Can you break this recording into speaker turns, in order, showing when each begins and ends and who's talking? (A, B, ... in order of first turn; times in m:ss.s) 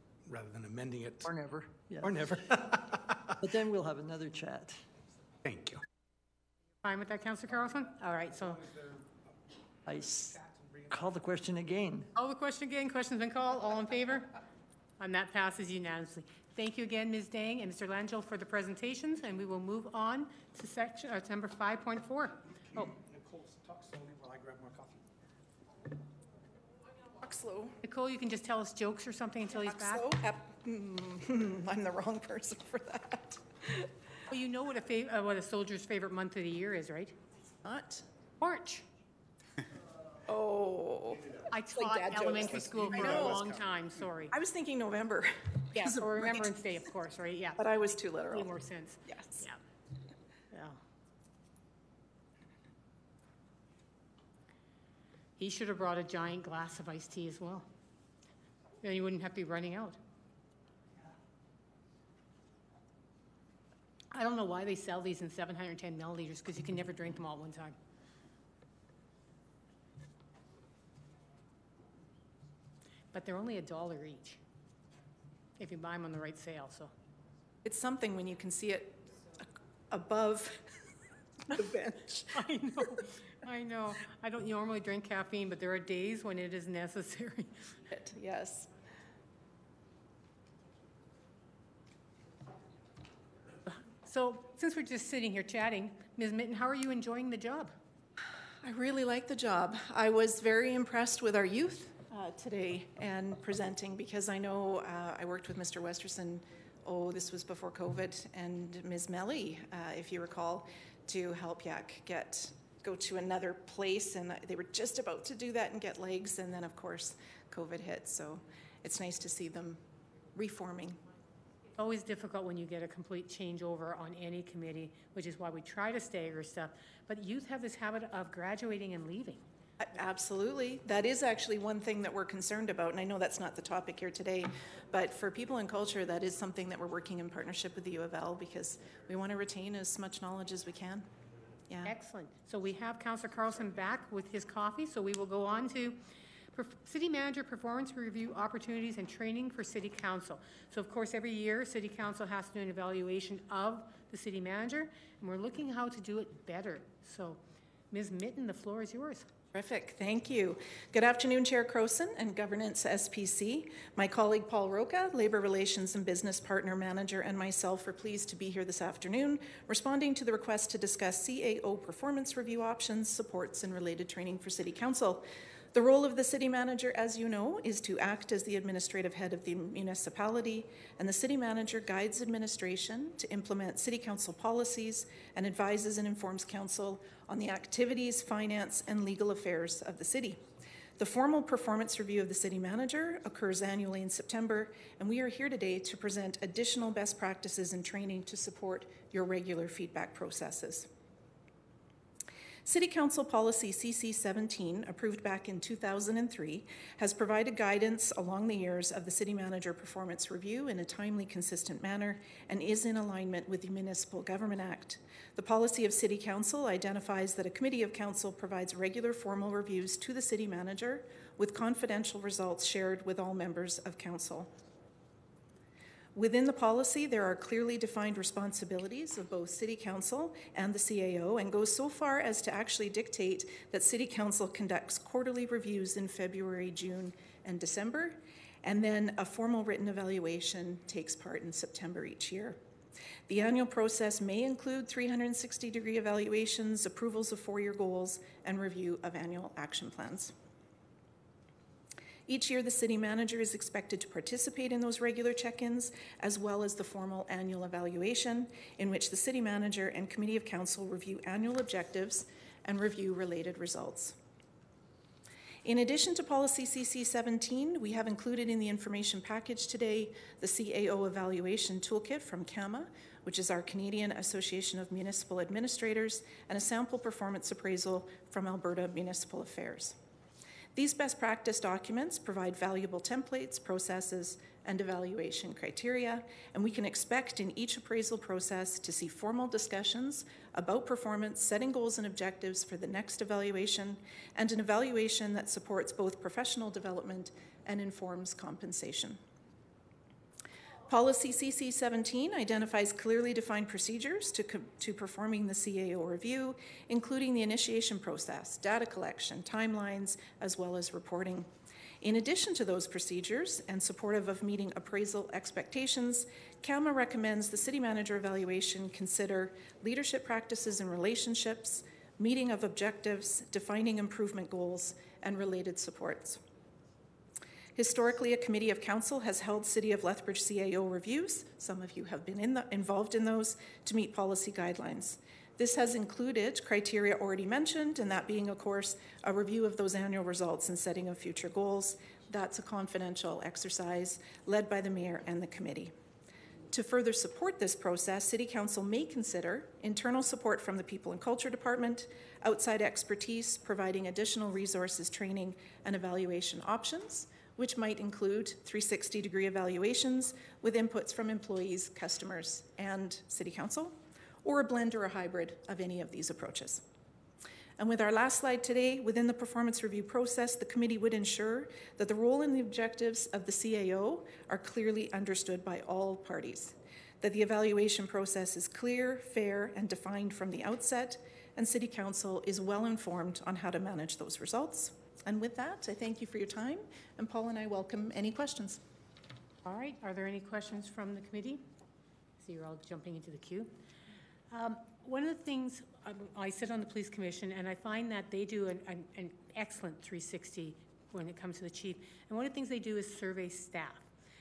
0:00.2-0:01.4 A
0:01.2-0:02.3 B
0:02.0-0:03.3 A
0:03.4-0:04.9 B
0:05.4-0:05.8 A
0:06.8-0:08.6 C
0:08.3-0:09.4 A
0:09.9-0:10.4 B
0:10.0-0:11.2 A
0:10.9-0:12.1 B
0:12.2-0:14.3 C
0:15.0-0:22.9 C
0:22.7-0:25.1 A
0:27.0-0:27.8 D
0:27.8-0:30.1 C
0:29.5-0:33.9 D
0:34.3-0:37.2 C
0:37.6-0:38.1 D
0:38.4-0:38.9 C
0:40.2-0:43.5 D
0:41.5-0:44.4 C
0:42.3-0:43.8 A
0:44.3-0:46.5 D
0:45.7-0:49.6 C
0:47.6-0:48.5 D
0:49.1-0:49.5 D
0:50.5-0:50.8 C
0:55.4-0:57.7 C
0:58.8-1:00.0 C
1:04.1-1:07.8 C
1:13.1-1:14.4 C
1:15.6-1:16.9 C
1:17.6-1:20.7 D
1:21.6-1:22.2 A
1:22.3-1:27.6 C
1:27.9-1:28.7 D
1:33.7-1:37.7 C
1:38.6-2:01.0 D
2:01.8-2:09.4 C
2:09.8-2:21.1 D
2:21.7-2:21.9 D
2:21.8-2:26.0 C
2:26.5-2:39.3 C
2:39.5-3:20.9 D
3:22.6-3:44.5 D
3:46.2-4:02.6 D
4:03.3-4:10.3 D
4:12.3-4:24.2 D
4:25.6-4:40.0 D
4:40.8-4:59.2 D
5:00.9-5:26.4 D
5:27.8-5:45.9 D
5:46.7-6:06.8 D
6:07.8-6:28.8 D
6:29.6-6:31.6 C
6:32.4-6:33.7 C
6:34.5-6:44.1 C